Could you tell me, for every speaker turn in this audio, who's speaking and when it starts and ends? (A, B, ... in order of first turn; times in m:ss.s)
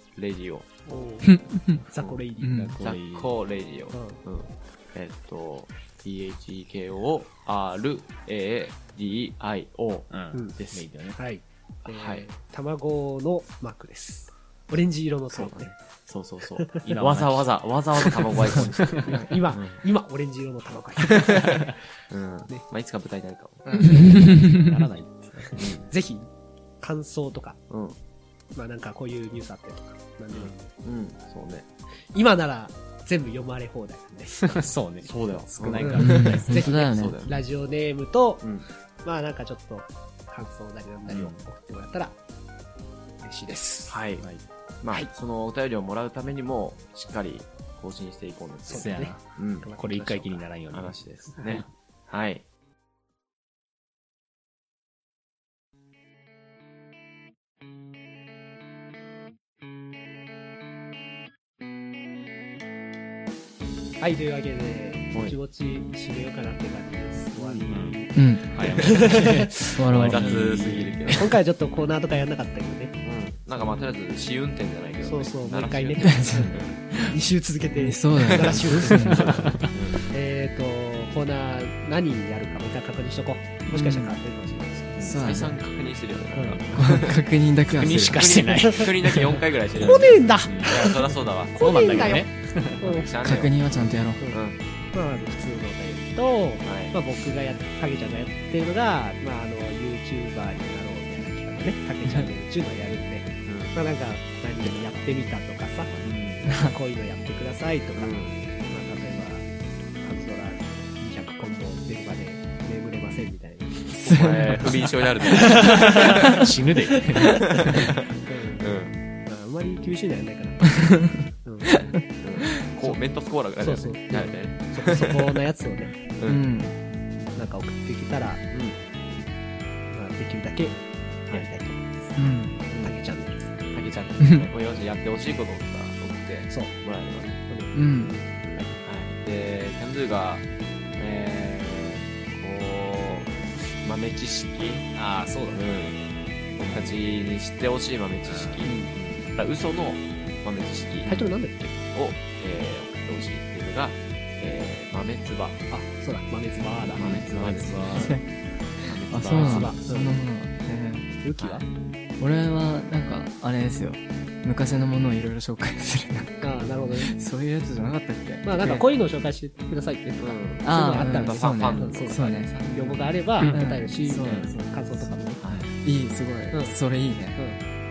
0:00.2-0:00.7 A
0:00.9-0:01.4 B
0:01.2-0:01.8 C
0:01.9-0:02.7 B
0:02.4-0:02.7 C
0:02.5-0:03.3 D
0:02.8-0:10.9 A
0:03.9-0:04.2 B
0:10.1-0:11.2 D
0:11.1-0:15.7 B
0:11.8-0:12.2 A
0:15.3-0:19.8 A
0:16.6-0:16.8 B
0:16.8-0:19.2 D
0:19.0-0:21.7 B
0:21.1-0:24.0 A
0:23.8-0:24.7 C
0:23.8-0:25.7 D
0:25.6-0:25.9 A
0:25.9-0:26.3 B
0:26.8-0:27.6 B
0:27.7-0:28.0 A
0:28.6-0:30.6 B
0:30.5-0:31.7 A
0:32.1-0:34.7 B
0:34.4-0:36.8 D
0:35.0-0:37.4 A
0:35.8-0:38.4 B
0:36.0-0:37.2 C
0:39.0-0:42.2 B
0:41.1-0:41.4 D
0:43.2-0:44.0 B
0:43.9-0:44.2 A
0:44.8-0:49.7 A
0:48.6-0:50.5 B
0:48.7-0:49.2 D
0:49.8-0:51.6 D
0:50.7-0:52.4 A
1:04.0-1:09.7 B
1:07.4-1:07.7 A
1:07.7-1:11.1 D
1:08.1-1:08.6 C
1:09.7-1:10.4 C
1:09.9-1:11.3 A
1:11.1-1:13.0 B
1:13.0-1:16.7 A
1:15.0-1:25.1 B
1:16.0-1:17.2 C
1:17.7-1:19.3 C
1:18.2-1:20.1 A
1:19.1-1:19.7 D
1:23.7-1:24.1 C
1:25.0-1:27.3 A
1:25.0-1:25.6 C
1:26.4-1:26.7 B
1:26.7-1:28.4 C
1:27.7-1:31.0 D
1:27.8-1:32.2 A
1:28.6-1:28.9 B
1:29.8-1:33.1 B
1:31.6-1:32.9 D
1:32.8-1:33.7 A
1:33.2-1:34.2 C
1:34.3-1:34.6 A
1:34.9-1:49.5 B
1:36.6-1:36.9 A
1:43.4-1:43.7 A
1:46.0-1:46.4 D
1:46.5-1:46.7 C
1:48.0-1:48.4 A
1:50.0-1:53.9 B
1:54.0-1:56.4 A
1:54.0-1:54.7 C
1:55.4-1:56.2 B
1:55.6-1:57.9 D
1:57.3-1:59.0 A
1:58.2-1:58.7 B
1:59.2-2:01.8 B
2:02.2-2:05.4 A
2:03.6-2:06.0 B
2:06.0-2:06.5 A
2:06.2-2:06.7 C
2:07.4-2:08.5 B
2:09.9-2:13.5 B
2:12.2-2:12.6 C
2:12.7-2:13.0 A
2:13.7-2:17.4 A
2:17.5-2:17.9 B
2:17.7-2:18.2 C
2:18.8-2:20.4 A
2:21.0-2:24.9 A
2:24.9-2:25.6 D
2:25.5-2:26.0 A
2:26.6-2:35.6 A
2:26.6-2:27.0 D
2:28.3-2:28.6 D
2:28.6-2:28.9 B
2:31.1-2:31.6 B
2:35.7-2:37.2 B
2:36.8-2:38.2 D
2:36.9-2:38.2 A
2:37.9-2:38.2 C
2:38.8-2:41.1 C
2:38.8-2:39.9 A
2:39.3-2:40.2 B
2:41.2-2:41.6 B
2:41.4-2:41.6 A
2:42.2-2:48.9 C
2:46.4-2:47.1 B
2:48.4-2:55.4 B
2:50.2-2:53.1 A
2:50.6-2:52.5 C
2:53.5-2:54.6 C
2:54.2-2:54.5 D
2:55.4-2:55.7 A
2:55.8-2:57.4 C